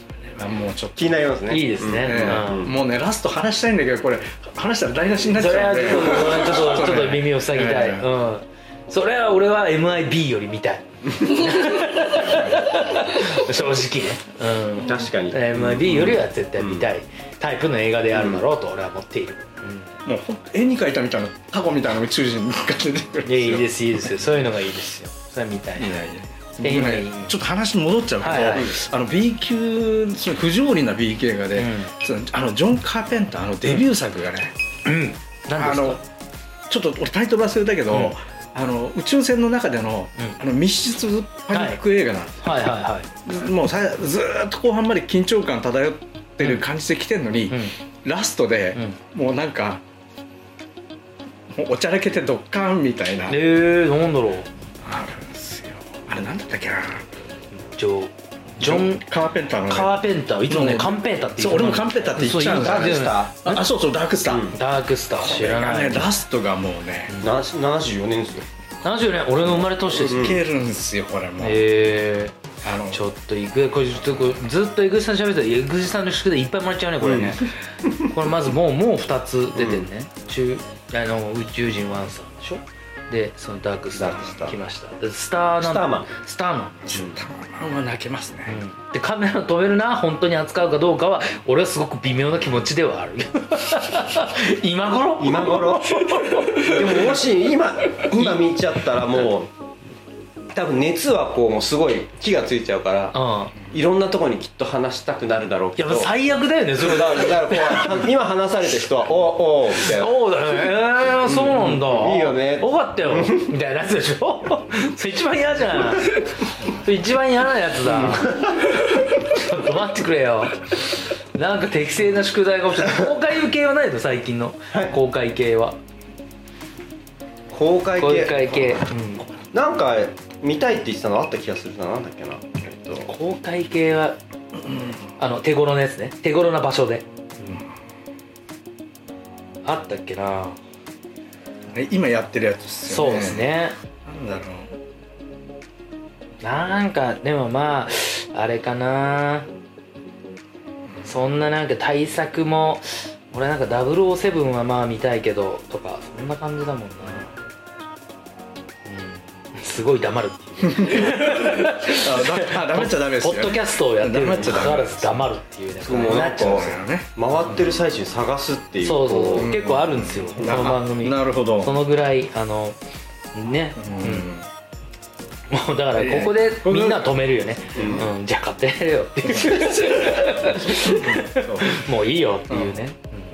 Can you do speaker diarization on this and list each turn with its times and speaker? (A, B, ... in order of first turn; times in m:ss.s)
0:00.4-0:01.2 A
0:01.0-0:02.7 B
0:01.5-0:02.6 C
0:02.0-0:08.1 A
0:05.3-0:19.9 C
0:14.8-0:16.9 B
0:18.1-0:18.4 B
0:20.0-0:23.6 A
0:23.2-0:26.0 C
0:25.8-0:34.5 A
0:26.6-0:27.4 C
0:28.2-0:28.7 C
0:31.5-0:31.9 C
0:34.8-0:36.0 C
0:35.6-0:36.0 A
0:36.7-0:42.6 A
0:37.9-0:38.1 C
0:41.5-0:41.8 C
0:42.4-0:43.1 C
0:43.2-0:49.8 A
0:47.5-0:47.8 C
0:51.5-0:53.4 A
0:53.3-0:54.5 C
0:54.8-0:57.2 A
0:57.5-0:59.0 C
0:58.6-1:04.6 A
0:59.7-1:03.6 C
1:02.3-1:03.4 B
1:04.3-1:04.6 B
1:04.5-1:06.2 C
1:05.2-1:07.1 A
1:07.2-1:08.4 B
1:08.8-1:10.4 C
1:09.8-1:10.4 B
1:10.1-1:11.6 A
1:11.4-1:12.4 C
1:12.6-1:13.0 A
1:12.9-1:17.5 C
1:17.0-1:18.0 B
1:18.0-1:27.2 C
1:19.5-1:19.8 B
1:23.9-1:24.6 B
1:25.6-1:26.1 B
1:26.9-1:27.2 B
1:27.1-1:28.6 A
1:28.5-1:37.1 C
1:35.2-1:39.5 B
1:38.1-1:39.3 C
1:40.5-1:46.1 B
1:43.1-1:43.5 C
1:45.8-1:48.0 C
1:46.8-1:50.2 B
1:49.8-1:58.5 C
1:51.2-1:53.5 B
1:57.8-1:58.7 B
1:59.2-2:05.8 C
2:07.5-2:08.8 B
2:08.0-2:09.3 C
2:09.5-2:13.1 B
2:13.0-2:14.2 C
2:14.6-2:15.0 A
2:15.2-2:17.0 C
2:19.6-2:20.6 C
2:21.7-2:23.5 A
2:22.8-2:23.8 C
2:24.0-2:24.7 A
2:26.4-2:29.5 C
2:31.0-2:37.3 C
2:38.8-2:46.8 C
2:40.8-2:41.3 A
2:41.9-2:45.2 A
2:44.4-2:44.7 B
2:45.8-2:49.5 B
2:46.0-2:47.1 A
2:48.8-2:52.8 C
2:49.4-2:51.7 A
2:53.3-2:54.3 C
2:53.8-2:54.5 A
2:55.5-3:03.1 C
2:56.0-2:57.1 A
2:57.7-2:58.1 B
3:00.8-3:01.8 A
3:02.5-3:02.8 A